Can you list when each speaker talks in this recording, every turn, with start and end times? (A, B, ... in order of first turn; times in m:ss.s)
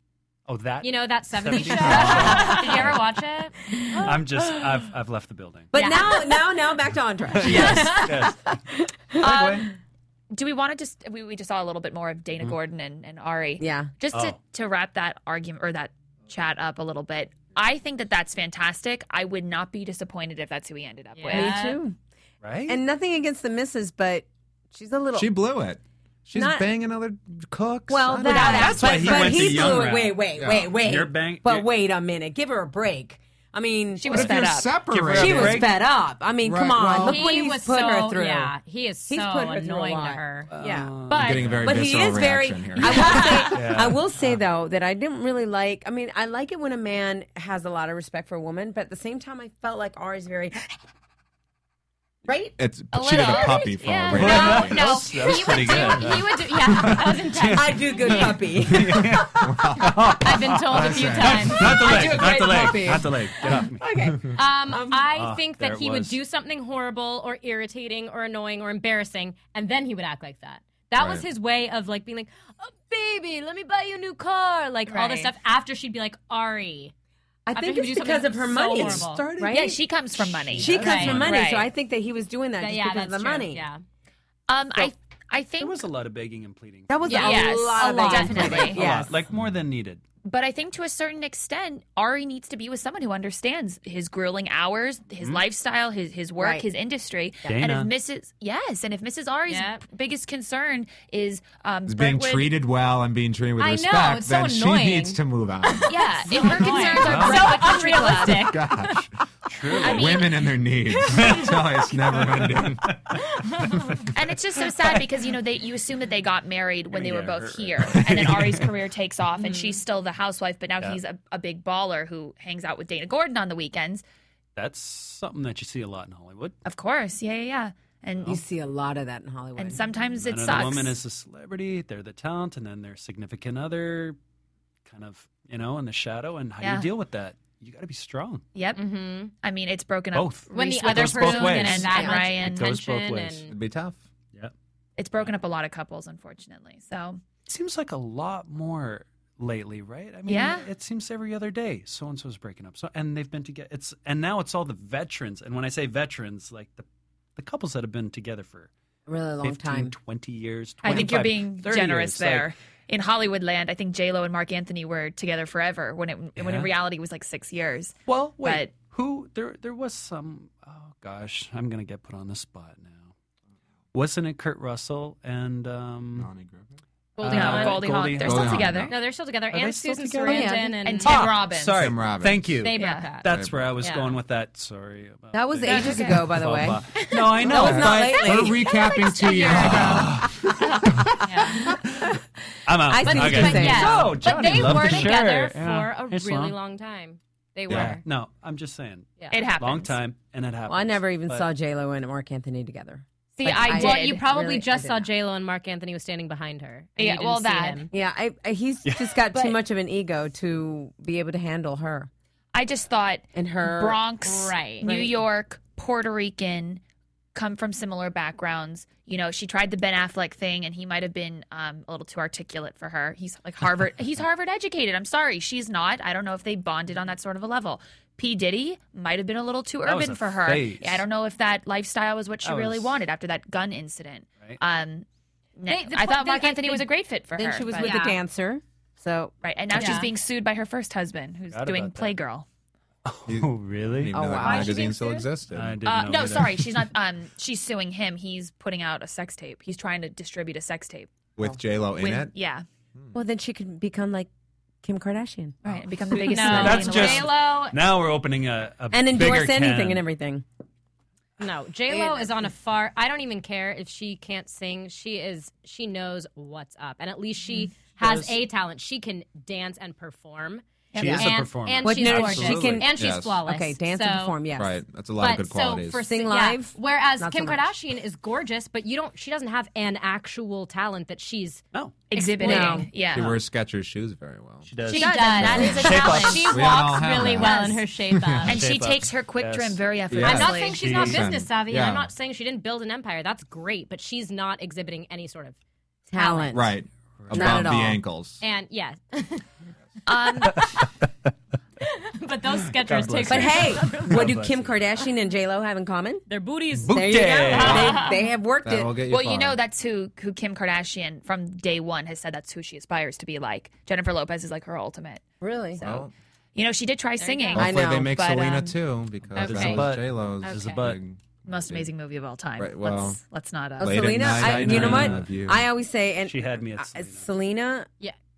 0:00.5-0:03.0 A
0:00.8-0:04.2 B
0:01.8-0:02.5 C
0:02.5-0:03.0 D
0:04.0-0:05.7 A
0:05.7-0:09.6 E
0:05.7-0:06.5 B
0:07.3-0:08.6 A
0:07.4-0:08.1 B
0:09.2-0:09.7 A
0:09.2-0:09.6 D
0:10.3-0:21.6 D
0:13.6-0:13.9 E
0:14.1-0:14.4 A
0:21.1-0:21.8 B
0:21.3-0:22.0 E
0:22.4-0:22.8 A
0:22.7-0:25.3 E
0:25.1-0:29.8 C
0:26.3-0:26.6 E
0:27.9-0:34.3 E
0:28.2-0:29.7 B
0:28.4-0:30.2 A
0:30.4-0:30.7 C
0:30.8-0:31.7 A
0:34.0-0:34.8 D
0:34.1-0:35.8 C
0:34.9-0:35.7 A
0:35.1-0:38.5 E
0:36.4-0:37.3 C
0:37.0-0:41.5 B
0:39.1-0:40.9 E
0:40.5-0:41.8 A
0:41.1-0:43.3 C
0:41.6-0:50.8 E
0:42.8-0:43.4 B
0:43.5-0:44.4 A
0:52.3-0:52.5 E
0:52.6-0:55.0 C
0:52.9-0:55.0 D
0:54.1-0:58.3 B
0:54.1-1:03.8 A
0:57.5-0:59.3 E
0:58.9-1:01.8 C
1:00.2-1:02.7 B
1:01.6-1:05.1 E
1:04.3-1:16.9 B
1:05.1-1:06.2 A
1:11.0-1:11.2 C
1:14.9-1:15.3 D
1:17.4-1:23.6 E
1:17.5-1:19.3 B
1:19.4-1:21.7 D
1:20.5-1:21.3 A
1:20.7-1:21.2 B
1:22.6-1:23.8 B
1:24.5-1:25.8 D
1:25.6-1:27.2 A
1:26.9-1:29.2 E
1:27.1-1:28.8 B
1:27.1-1:28.8 D
1:28.4-1:30.0 A
1:30.2-1:42.5 D
1:36.4-1:36.6 E
1:37.4-1:37.9 A
1:39.5-1:39.8 B
1:41.9-1:45.9 C
1:43.6-1:45.2 B
1:45.7-1:49.0 B
1:45.8-1:48.6 D
1:47.0-1:47.6 A
1:48.2-1:49.1 C
1:49.5-1:50.2 A
1:49.8-1:50.3 D
1:49.8-1:53.2 C
1:51.1-1:53.2 A
1:53.5-1:53.9 B
1:54.1-2:04.0 D
1:56.9-1:58.7 A
1:59.4-1:59.8 B
2:04.6-2:06.6 A
2:06.6-2:08.4 D
2:08.2-2:09.8 E
2:09.6-2:11.0 D
2:10.2-2:14.2 A
2:14.8-2:18.4 A
2:16.6-2:16.9 D
2:18.5-2:22.7 D
2:18.8-2:19.3 B
2:20.1-2:23.5 A
2:20.5-2:23.5 B
2:23.5-2:24.0 C
2:25.0-2:27.2 D
2:27.4-2:38.7 A
2:30.2-2:30.7 D
2:39.1-2:39.9 E
2:39.4-2:42.5 A
2:40.8-2:48.7 D
2:46.4-2:46.7 A
2:48.1-2:53.1 A
2:53.9-2:56.3 A
2:56.2-2:56.8 C
2:57.2-2:58.0 B
2:57.2-2:59.0 A
2:57.2-2:58.9 D
2:58.2-2:58.9 C
2:58.9-3:01.2 B
2:59.5-3:08.5 A
3:00.2-3:00.8 E
3:00.8-3:01.9 D
3:01.7-3:02.6 C
3:02.6-3:03.3 B
3:02.7-3:03.1 D
3:03.3-3:03.8 C
3:03.8-3:04.1 B
3:05.3-3:08.8 E
3:05.6-3:06.3 D
3:07.4-3:11.1 C
3:08.2-3:10.0 B
3:09.5-3:10.4 A
3:09.7-3:10.0 E
3:11.2-3:11.7 B
3:11.7-3:12.1 E
3:12.6-3:16.6 A
3:12.8-3:14.2 E
3:13.0-3:18.0 B
3:17.7-3:18.0 C
3:17.7-3:21.5 A
3:19.3-3:19.9 D
3:20.7-3:25.1 E
3:23.4-3:24.2 D
3:23.6-3:27.9 B
3:27.0-3:27.9 D
3:27.9-3:32.1 E
3:28.8-3:29.2 A
3:32.5-3:36.8 D
3:33.3-3:34.0 E
3:34.2-3:35.0 B
3:34.8-3:35.1 E
3:37.3-3:58.1 D
3:49.8-3:51.0 A
3:52.4-3:53.0 A
3:55.7-3:56.9 B
3:57.3-4:00.0 E
3:57.7-3:58.2 B
3:59.4-4:02.4 D
3:59.7-4:00.1 B
4:01.5-4:02.1 A
4:03.0-4:04.1 A
4:03.3-4:06.3 C
4:04.1-4:04.8 E
4:04.4-4:05.2 B
4:05.5-4:06.9 A
4:05.8-4:11.1 D
4:11.4-4:12.3 C
4:12.0-4:12.6 D
4:13.1-4:14.3 E
4:14.8-4:15.6 E
4:15.6-4:17.4 D
4:16.2-4:20.0 A
4:16.2-4:17.8 B
4:18.9-4:20.4 E
4:21.4-4:34.4 B
4:21.9-4:22.4 E
4:28.0-4:28.4 A
4:30.9-4:31.3 D
4:30.9-4:32.9 A
4:31.0-4:31.2 E
4:31.8-4:34.8 E
4:32.5-4:33.4 C
4:34.6-4:36.0 C
4:35.2-4:41.6 B
4:36.0-4:37.7 E
4:41.7-4:42.0 A
4:42.1-4:43.4 D
4:42.1-4:42.9 B
4:42.4-4:42.9 E
4:43.1-4:44.7 C
4:44.6-4:46.6 A
4:44.9-4:46.5 D
4:44.9-4:48.6 B
4:45.4-4:48.5 C
4:45.5-4:46.1 E
4:47.4-4:47.8 D
4:48.5-4:51.0 D
4:48.5-4:49.8 A
4:50.1-4:52.1 C
4:50.2-4:55.6 B
4:50.8-4:51.3 A
4:56.1-4:56.7 E
4:56.1-4:56.5 B
4:56.5-4:58.4 C
4:57.2-4:57.7 A
4:57.3-4:58.0 E
4:58.4-4:59.4 B
5:00.0-5:00.6 D
5:01.8-5:04.4 B
5:02.8-5:04.8 A
5:03.3-5:06.2 E
5:06.3-5:07.0 B
5:06.8-5:08.0 A
5:06.9-5:09.0 E
5:07.5-5:08.2 B
5:07.7-5:08.0 D
5:08.6-5:09.6 C
5:09.0-5:15.2 D
5:15.4-5:15.8 E
5:15.8-5:18.8 D
5:15.8-5:16.1 C
5:17.2-5:17.6 B
5:17.5-5:21.9 C
5:17.6-5:18.1 E
5:19.3-5:21.0 A
5:19.4-5:20.8 B
5:21.4-5:24.4 D
5:22.6-5:23.2 C
5:23.8-5:25.6 C
5:23.8-5:27.9 E
5:24.3-5:25.3 A
5:26.2-5:27.3 A